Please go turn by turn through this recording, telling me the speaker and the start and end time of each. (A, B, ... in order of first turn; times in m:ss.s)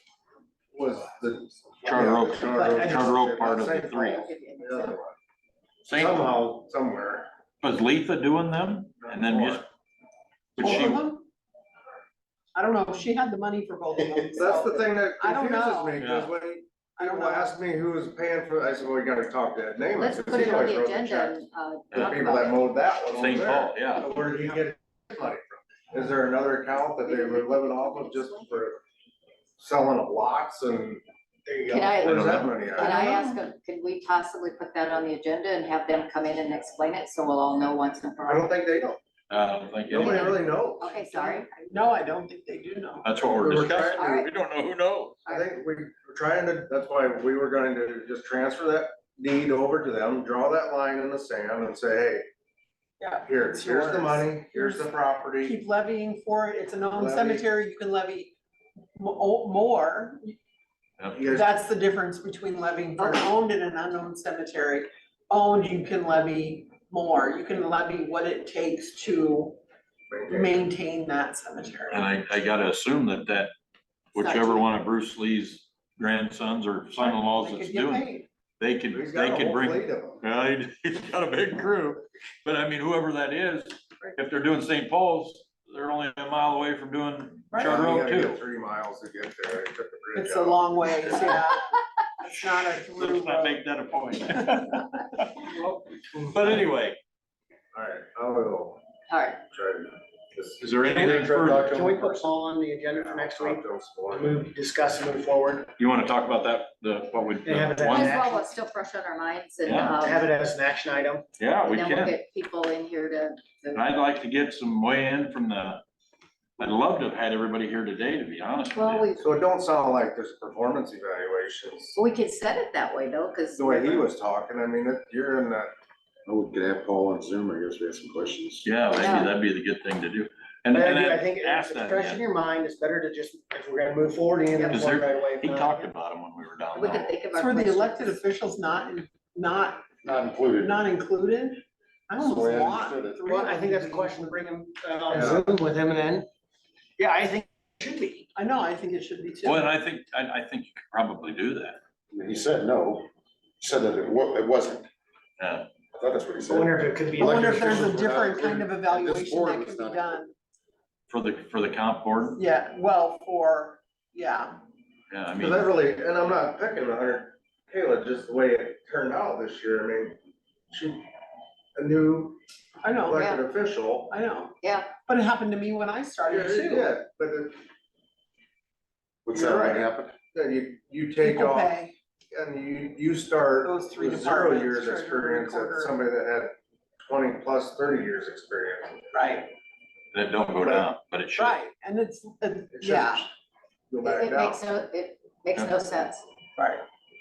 0:00.7-0:05.1 A
0:01.8-0:04.3 B
0:02.5-0:03.0 C
0:04.0-0:05.0 D
0:05.8-0:06.3 B
0:05.9-0:07.3 A
0:07.6-0:09.6 B
0:09.0-0:09.6 A
0:10.6-0:11.0 B
0:10.6-0:11.3 C
0:12.5-0:16.1 C
0:14.4-0:21.4 A
0:16.0-0:16.3 B
0:17.0-0:17.6 C
0:19.9-0:22.8 D
0:21.9-0:22.2 B
0:21.9-0:28.8 A
0:23.1-0:24.1 B
0:27.0-0:28.6 D
0:29.6-0:31.0 A
0:31.5-0:32.0 E
0:31.7-0:38.5 D
0:32.0-0:33.2 A
0:32.0-0:32.5 B
0:32.8-0:33.3 C
0:38.2-0:39.0 A
0:39.3-0:40.3 B
0:39.9-0:40.9 A
0:40.0-0:40.4 C
0:40.8-0:41.8 D
0:40.9-0:43.2 C
0:43.0-0:45.2 B
0:43.3-0:44.3 A
0:43.7-0:44.3 D
0:45.2-0:52.3 A
0:53.0-0:54.9 C
0:53.2-0:55.6 A
0:55.4-0:58.3 C
0:56.9-0:57.4 A
0:59.0-1:00.4 C
1:01.0-1:01.2 B
1:01.1-1:01.5 A
1:01.3-1:09.6 C
1:03.0-1:03.3 D
1:10.1-1:10.6 A
1:10.3-1:12.1 C
1:11.9-1:13.5 B
1:14.1-1:18.0 B
1:14.2-1:14.7 C
1:17.0-1:18.3 C
1:18.6-1:28.4 B
1:18.9-1:20.2 A
1:27.5-1:27.8 C
1:27.6-1:30.8 A
1:30.1-1:31.8 C
1:32.2-1:37.0 B
1:32.3-1:33.6 C
1:34.4-1:34.7 C
1:37.7-1:38.8 A
1:39.1-1:39.4 D
1:39.5-1:40.7 A
1:40.6-1:41.8 B
1:40.8-1:42.4 F
1:41.7-1:45.7 E
1:42.9-1:44.4 A
1:45.8-1:48.2 B
1:47.4-1:48.5 E
1:47.9-1:50.3 D
1:49.6-1:50.0 B
1:50.0-1:51.2 E
1:51.4-1:52.2 B
1:51.6-1:53.9 D
1:53.7-1:55.8 B
1:56.6-1:59.1 B
1:58.7-1:59.2 D
1:59.2-2:02.0 A
2:02.0-2:04.0 D
2:03.6-2:05.7 A
2:06.3-2:08.7 F
2:08.6-2:12.2 B
2:09.0-2:09.3 D
2:10.7-2:15.9 E
2:14.5-2:14.8 D
2:14.7-2:17.2 B
2:16.7-2:18.2 D
2:17.3-2:19.8 C
2:20.0-2:20.8 F
2:20.6-2:24.5 C
2:22.2-2:23.4 F
2:23.2-2:26.3 E
2:25.1-2:25.4 A
2:27.0-2:28.2 E
2:28.3-2:29.7 C
2:29.4-2:31.8 B
2:32.1-2:33.0 F
2:33.6-2:34.9 F
2:35.4-2:35.7 B
2:35.9-2:40.2 F
2:36.4-2:37.9 E
2:37.2-2:40.3 C
2:41.1-2:42.4 B
2:42.4-2:44.6 C
2:45.1-2:45.7 B
2:45.3-2:50.2 A
2:50.7-2:51.0 A
2:51.7-2:52.4 A
2:52.8-2:53.2 C
2:53.0-2:54.1 A
2:53.1-2:53.4 D
2:54.1-2:57.0 C
2:54.6-2:54.9 D
2:56.2-2:57.6 A
2:59.2-3:00.2 F
2:59.3-3:01.8 A
3:01.2-3:02.0 C
3:02.3-3:09.1 A
3:03.6-3:06.0 C
3:09.1-3:09.5 C
3:10.1-3:11.6 B
3:10.6-3:13.3 C
3:12.7-3:13.2 A
3:13.9-3:14.6 A
3:14.0-3:16.2 D
3:16.6-3:16.8 C